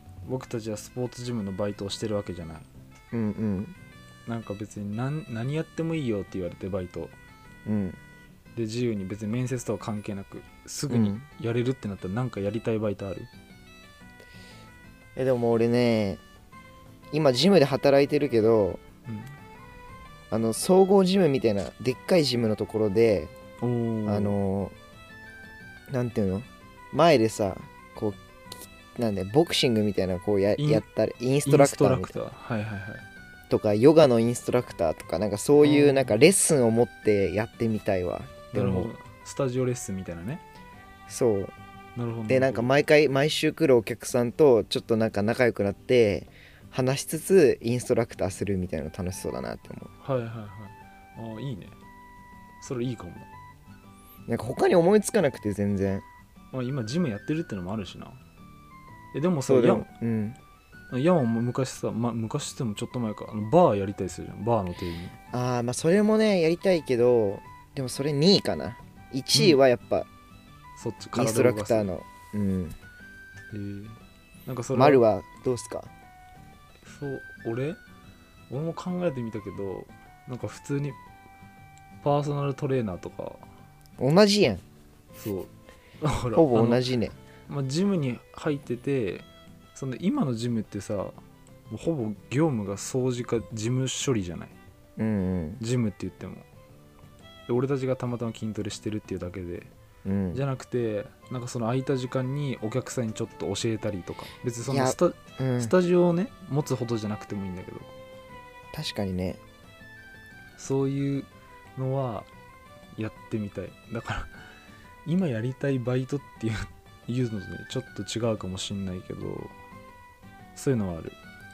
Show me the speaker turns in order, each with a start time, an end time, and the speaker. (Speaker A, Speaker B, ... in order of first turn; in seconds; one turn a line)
Speaker A: 0.2-2.7
Speaker B: 3.1-3.8
Speaker A: 4.3-7.1
Speaker B: 7.7-8.0
Speaker A: 8.5-13.3
Speaker B: 10.9-11.2
Speaker B: 15.2-16.2
Speaker B: 17.1-18.8
Speaker A: 19.1-19.3
Speaker B: 20.3-23.3
Speaker A: 23.6-24.4
Speaker B: 24.1-24.7
Speaker B: 25.9-28.2
Speaker B: 28.9-32.2
Speaker A: 30.6-30.8
Speaker A: 31.4-33.0
Speaker B: 33.5-38.9
Speaker A: 35.6-36.1
Speaker A: 38.5-40.4
Speaker B: 41.1-41.5
Speaker A: 42.0-42.7
Speaker B: 42.3-49.9
Speaker A: 50.0-51.8
Speaker A: 52.6-53.3
Speaker B: 54.3-56.0
Speaker A: 56.5-58.2
Speaker A: 59.1-59.9
Speaker B: 59.5-60.4
Speaker A: 60.9-65.2
Speaker B: 65.3-70.1
Speaker A: 69.3-69.6
Speaker A: 70.8-71.9
Speaker B: 71.1-72.8
Speaker A: 73.5-75.0
Speaker B: 74.7-75.9
Speaker A: 76.8-77.8
Speaker A: 78.5-81.0
Speaker A: 82.0-83.4
Speaker B: 84.0-84.6
Speaker A: 85.2-85.5
Speaker A: 86.0-86.8
Speaker B: 86.3-87.1
Speaker A: 87.5-91.2
Speaker A: 91.7-94.5
Speaker B: 95.0-95.6
Speaker A: 95.6-96.5
Speaker A: 97.5-99.7
Speaker B: 100.0-100.4
Speaker A: 100.3-107.9
Speaker B: 104.7-105.7
Speaker B: 108.7-109.4
Speaker A: 110.6-112.3
Speaker A: 113.0-114.3
Speaker A: 115.0-119.5
Speaker A: 120.5-121.2